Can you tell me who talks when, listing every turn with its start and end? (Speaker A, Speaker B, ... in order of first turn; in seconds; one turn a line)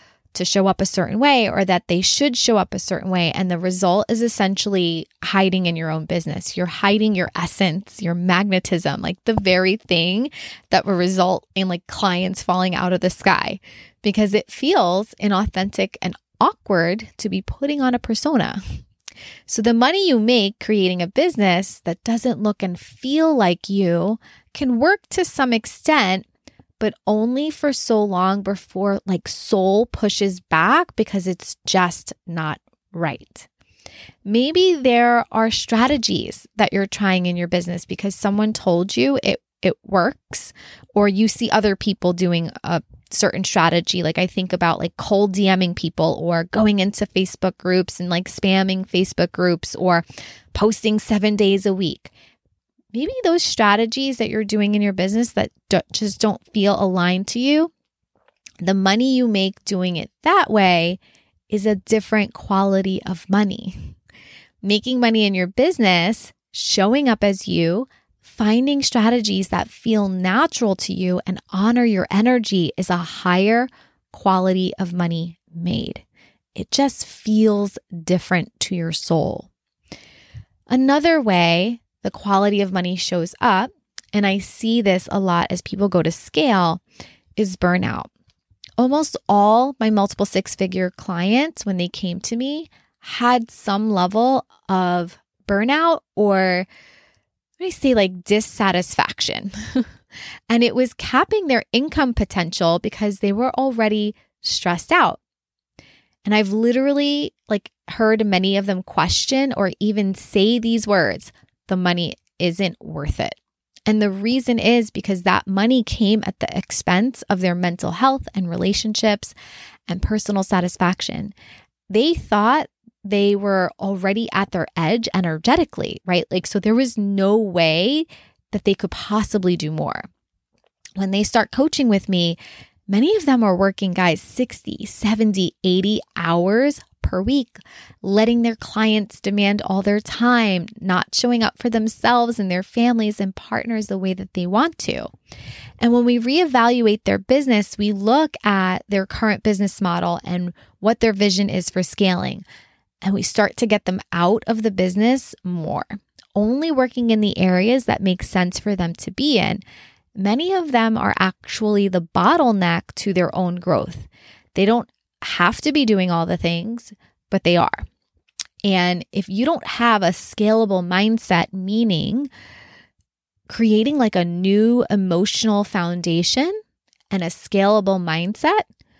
Speaker A: 0.3-18.6
Speaker A: 19.5-26.2
Speaker A: 26.8-33.5
Speaker A: 34.2-52.1
Speaker A: 52.9-57.7
Speaker A: 58.6-63.9
Speaker A: 64.6-76.0
Speaker A: 76.5-79.5
Speaker A: 80.7-86.8
Speaker A: 87.3-88.1
Speaker A: 88.8-96.7
Speaker A: 97.6-99.8
Speaker A: 100.5-105.2
Speaker A: 106.2-119.3
Speaker A: 119.9-121.3
Speaker A: 121.9-130.1
Speaker A: 131.0-132.4
Speaker A: 132.9-145.1
Speaker A: 145.8-152.4
Speaker A: 153.0-159.6
Speaker A: 160.1-167.8
Speaker A: 168.6-172.3
Speaker A: 173.5-176.6
Speaker A: 177.1-178.7